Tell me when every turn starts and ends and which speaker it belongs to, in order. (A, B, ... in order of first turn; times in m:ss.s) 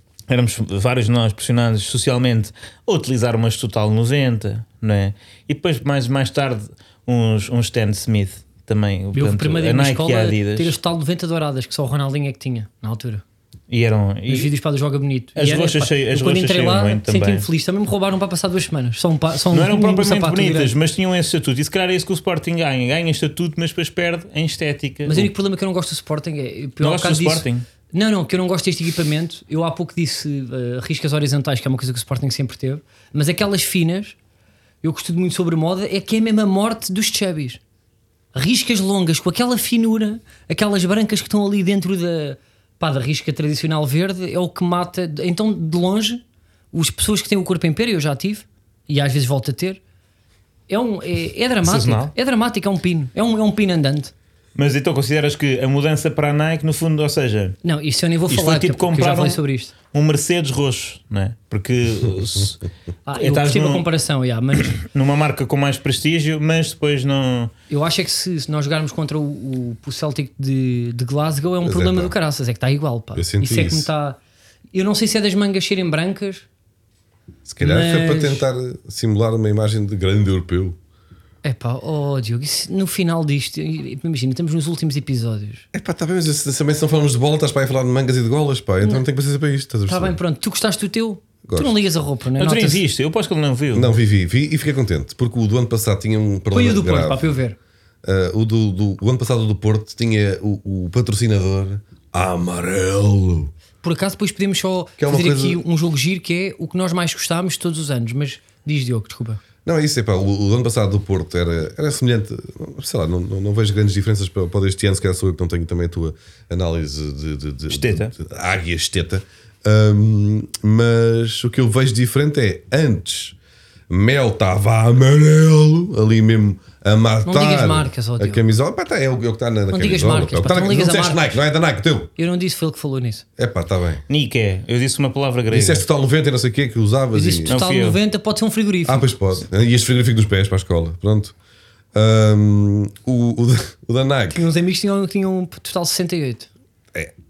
0:00.3-0:10.8 A
0:09.1-0:13.2 B
0:13.7-0:14.5 A
0:14.3-0:20.7 B
0:15.4-0:17.4 A
0:19.5-0:25.3 A
0:25.1-0:34.2 B
0:26.8-0:27.6 A
0:34.8-0:37.6 B
0:38.3-0:49.8 B
0:50.7-0:54.1 B
0:51.6-0:52.1 A
0:54.6-0:57.6 A
0:57.6-0:59.7 B
0:58.3-0:59.4 A
0:59.9-1:02.6 A
1:03.1-1:04.8 B
1:03.2-1:03.8 A
1:04.6-1:07.5 A
1:07.7-1:14.2 B
1:11.6-1:12.1 C
1:13.2-1:13.9 C
1:14.7-1:16.4 B
1:17.5-1:20.8 C
1:17.6-1:18.4 B
1:21.4-1:25.6 B
1:25.7-1:30.2 C
1:29.9-1:32.8 B
1:31.4-1:31.8 C
1:32.4-1:33.9 A
1:33.7-1:37.3 C
1:36.5-1:37.6 B
1:38.0-1:43.5 C
1:43.8-1:49.4 B
1:45.0-1:45.6 C
1:49.6-2:03.4 C
1:57.7-1:58.1 A
2:03.9-2:12.1 C
2:07.2-2:08.4 B
2:09.7-2:11.4 B
2:12.2-2:13.2 B
2:13.4-2:14.0 C
2:14.1-2:15.8 A
2:15.5-2:17.5 C
2:17.1-2:19.1 B
2:17.5-2:18.0 A
2:18.9-2:21.3 C
2:21.9-2:24.4 C
2:24.3-2:26.5 B